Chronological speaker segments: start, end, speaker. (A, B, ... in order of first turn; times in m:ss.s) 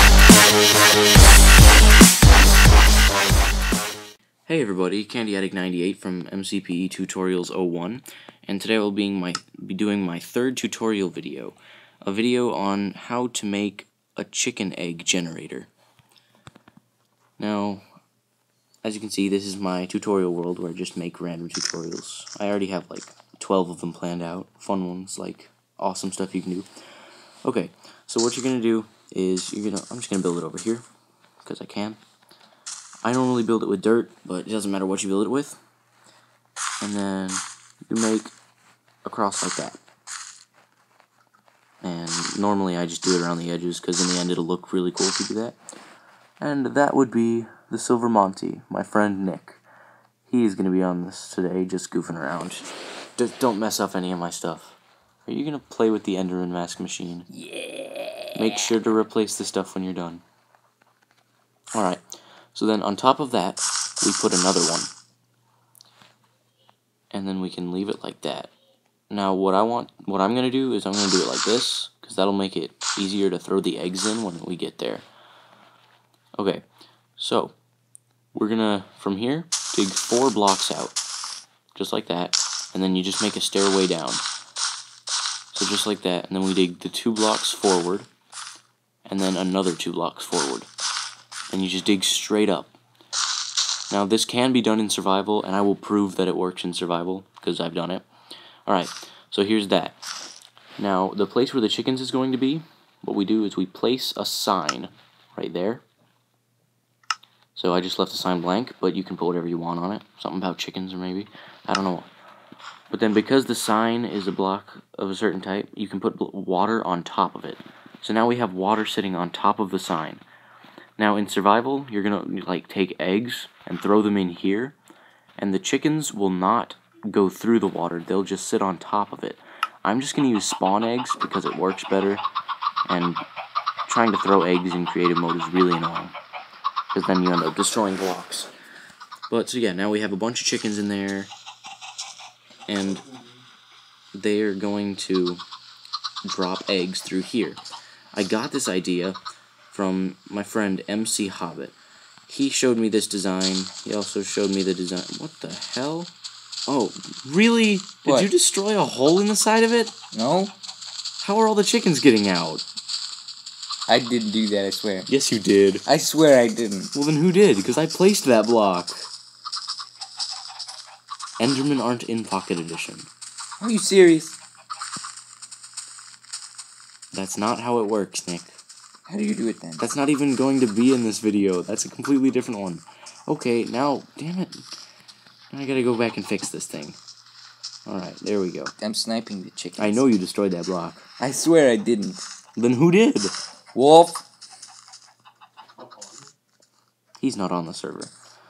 0:04.5-0:15.7 A
0:17.4-0:17.8 A
0:18.8-0:26.7 A
0:27.4-0:30.8 A
0:31.4-0:32.0 A
0:33.0-0:35.6 A
0:36.8-0:38.3 A
0:39.0-0:39.8 A
0:41.8-0:45.6 A
0:46.4-0:49.6 A
0:50.3-0:52.7 A
0:53.2-0:57.3 A
0:57.3-0:58.8 B
0:58.3-1:00.2 A
1:01.8-1:02.0 A
1:02.5-1:04.9 A
1:07.1-1:08.5 A
1:09.1-1:15.1 A
1:16.4-1:16.6 A
1:17.2-1:17.6 A
1:18.3-1:21.0 A
1:21.7-1:24.2 A
1:25.5-1:28.1 A
1:29.1-1:30.7 A
1:31.5-1:32.7 A
1:33.9-1:38.1 A
1:38.7-1:40.0 A
1:40.8-1:45.8 A
1:47.6-1:52.1 A
1:52.9-2:00.2 A
2:01.0-2:04.8 A
2:05.4-2:12.2 A
2:12.8-2:13.2 A
2:13.9-2:16.1 A
2:16.9-2:18.5 A
2:19.3-2:21.3 A
2:22.7-2:23.0 A
2:24.1-2:25.4 A
2:26.2-2:27.6 A
2:28.1-2:29.2 A
2:29.7-2:31.7 A
2:32.3-2:36.1 A
2:36.7-2:40.0 A
2:38.0-2:38.3 B
2:40.1-2:40.5 B
2:41.2-2:42.6 A
2:43.9-2:45.1 B
2:45.1-2:45.8 A
2:45.8-2:46.9 B
2:46.9-2:49.1 A
2:51.4-2:53.1 A
2:53.6-2:54.4 B
2:57.1-2:58.6 A
2:59.0-2:59.8 B
2:59.8-3:04.6 A
3:05.5-3:07.0 A
3:07.8-3:08.7 A
3:08.8-3:10.1 B
3:09.8-3:11.0 A
3:11.2-3:12.2 B
3:12.6-3:13.3 A
3:13.7-3:14.2 B
3:17.2-3:18.1 A